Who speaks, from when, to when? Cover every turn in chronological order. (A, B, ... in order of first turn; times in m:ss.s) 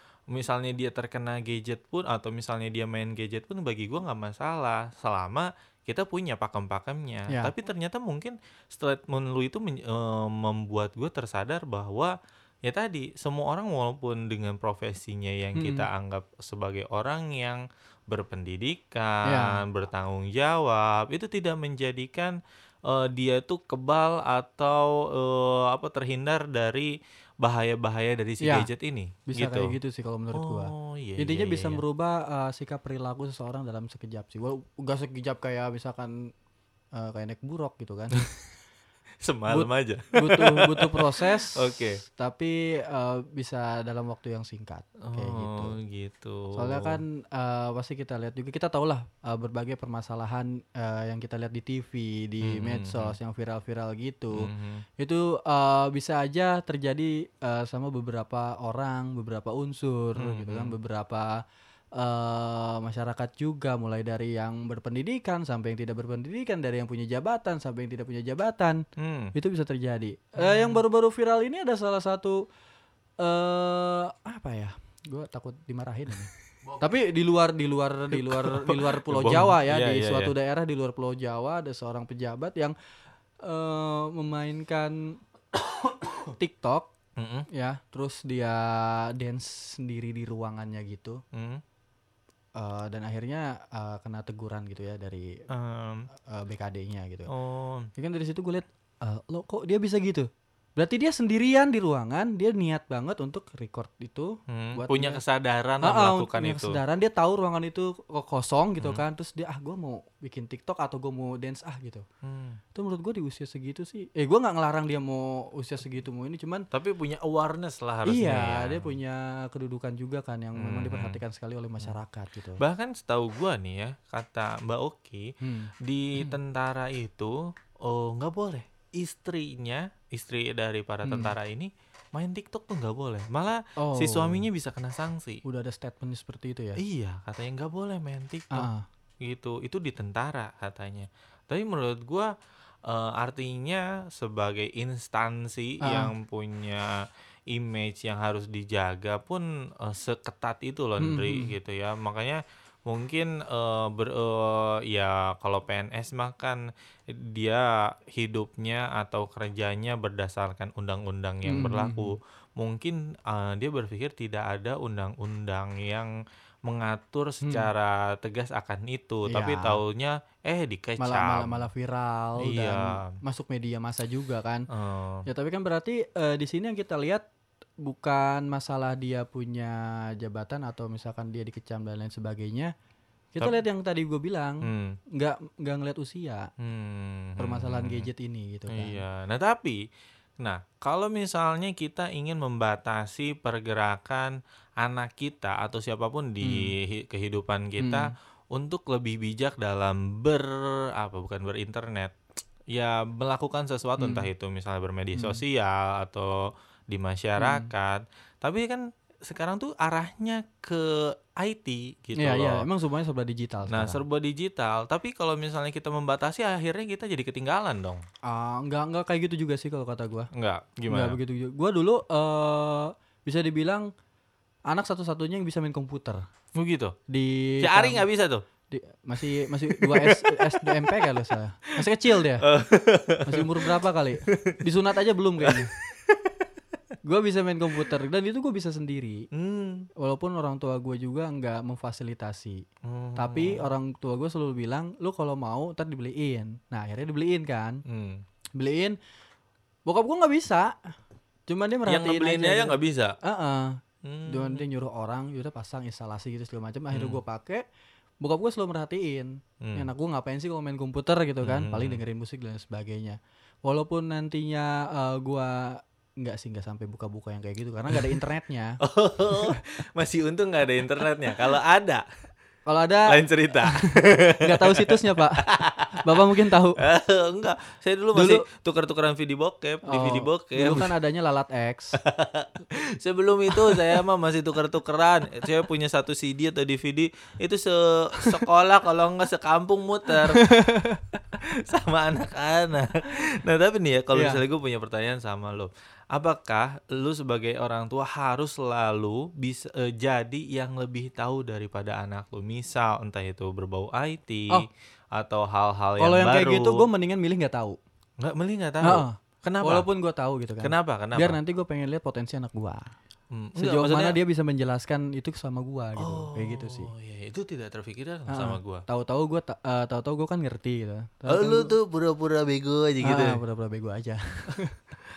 0:00.3-0:12.1 A
0:12.6-0:29.8 A
0:15.6-0:15.8 B
0:19.2-0:19.6 B
0:28.4-0:28.7 B
0:29.3-0:36.3 B
0:30.3-0:31.8 A
0:36.9-0:38.2 B
0:39.2-0:42.0 A
0:39.5-0:45.7 B
0:45.0-0:47.0 A
0:46.5-1:01.3 B
0:52.4-0:53.2 A
0:54.4-0:54.8 A
1:00.2-1:00.7 A
1:02.0-1:12.4 B
1:09.0-1:09.3 A
1:10.4-1:10.8 A
1:13.2-1:22.7 B
1:18.1-1:20.3 A
1:23.4-1:25.2 B
1:26.2-1:26.9 B
1:27.2-1:27.5 A
1:27.5-1:31.2 B
1:31.3-1:31.6 A
1:32.6-1:35.4 B
1:35.5-1:36.1 A
1:36.2-1:37.3 B
1:37.3-1:37.9 A
1:38.0-1:45.2 B
1:44.5-1:46.8 A
1:45.8-1:52.0 B
1:52.2-1:52.6 A
1:52.7-1:56.7 B
1:56.7-1:58.9 A
1:58.0-2:02.6 B
2:00.6-2:01.2 A
2:02.6-2:15.4 A
2:05.4-2:06.3 B
2:11.0-2:11.3 B
2:13.8-2:14.4 B
2:15.4-2:16.8 B
2:16.8-2:18.7 A
2:18.5-2:18.8 B
2:19.2-2:22.3 A
2:22.8-2:46.1 A
2:25.8-2:26.1 B
2:31.0-2:31.5 B
2:41.4-2:42.2 B
2:46.6-2:51.7 A
2:47.4-2:47.7 B
2:49.2-2:49.8 B
2:51.0-2:54.7 B
2:52.4-2:53.1 A
2:54.7-2:55.2 A
2:55.2-2:57.2 B
2:57.8-3:02.7 B
3:03.3-3:06.5 B
3:04.6-3:05.0 A
3:06.6-3:08.1 A
3:07.4-3:09.0 B
3:08.7-3:09.8 A
3:10.4-3:22.2 A
3:16.4-3:16.7 B
3:17.8-3:18.1 B
3:22.7-3:32.6 A
3:24.0-3:24.3 B
3:25.1-3:25.4 B
3:27.4-3:27.7 B
3:32.2-3:34.0 B
3:33.7-3:38.0 A
3:38.2-3:40.3 B
3:40.3-3:41.2 A
3:40.9-3:43.9 B
3:44.7-3:46.2 B
3:46.6-3:47.0 A
3:47.1-3:48.0 B
3:47.6-3:48.4 A
3:48.7-3:52.5 B
3:49.7-3:51.0 A
3:51.8-3:53.7 A
3:53.2-3:55.7 B
3:54.3-3:54.6 A
3:55.4-3:56.5 A
3:57.0-3:59.2 B
3:59.3-3:59.9 A
4:00.0-4:02.6 B
4:02.8-4:03.7 A
4:03.2-4:07.8 B
4:07.9-4:08.2 A
4:08.6-4:09.0 B
4:09.8-4:10.9 B
4:11.5-4:17.6 B
4:11.8-4:13.2 A
4:14.0-4:14.6 A
4:16.9-4:17.2 A
4:18.2-4:28.8 B
4:19.6-4:19.9 A
4:21.4-4:22.0 A
4:27.9-4:28.2 A
4:28.8-4:32.0 A
4:29.3-4:29.6 B
4:32.6-4:36.8 B
4:33.1-4:40.9 A
4:38.1-4:38.4 B
4:39.8-4:42.0 B
4:42.0-4:50.4 A
4:50.3-4:51.0 B
4:51.4-5:06.9 A
4:54.1-4:54.4 B
5:06.0-5:07.8 B
5:08.2-5:09.8 A
5:08.8-5:12.9 B
5:10.6-5:11.4 A
5:13.3-5:14.2 A
5:13.6-5:16.9 B
5:16.0-5:18.8 A
5:18.3-5:21.7 B
5:21.3-5:23.4 A
5:23.0-5:24.7 B